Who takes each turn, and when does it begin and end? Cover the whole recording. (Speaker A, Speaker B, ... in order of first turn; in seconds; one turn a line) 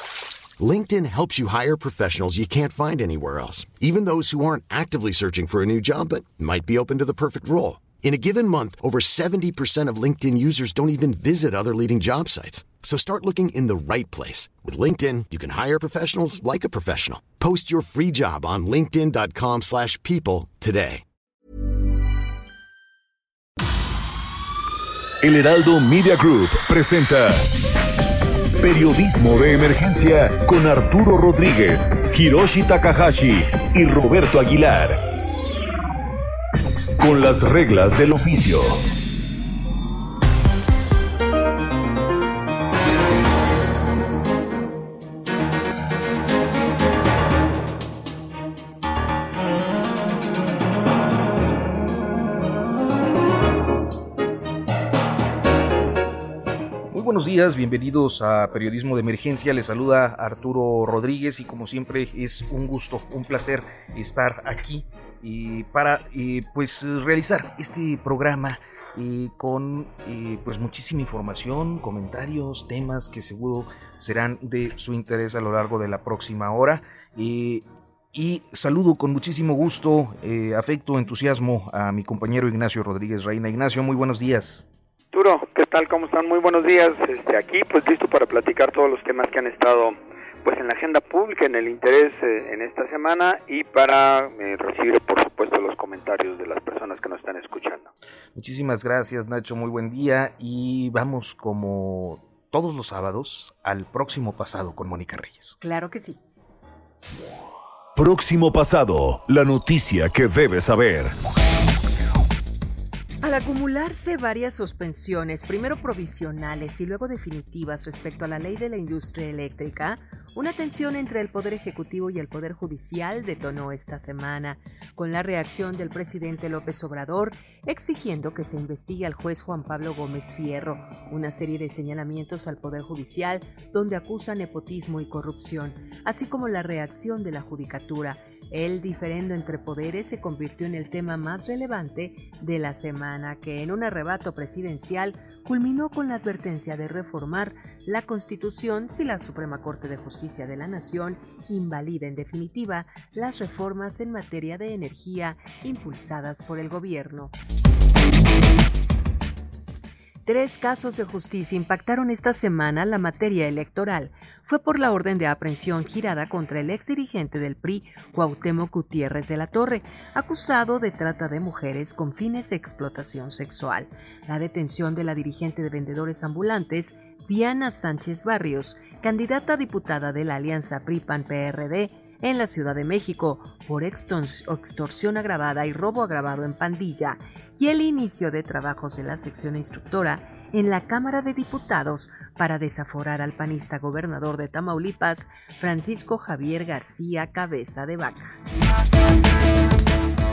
Speaker A: 0.6-21.0
Speaker B: 25.2-27.5
Speaker B: 28.6-35.0
Speaker B: 37.0-38.8
Speaker C: 56.9-84.7
Speaker D: 85.1-97.9
Speaker C: 98.3-105.6
Speaker E: 105.6-106.2
Speaker B: 108.0-111.1
Speaker E: 113.2-157.3
Speaker E: 160.2-198.4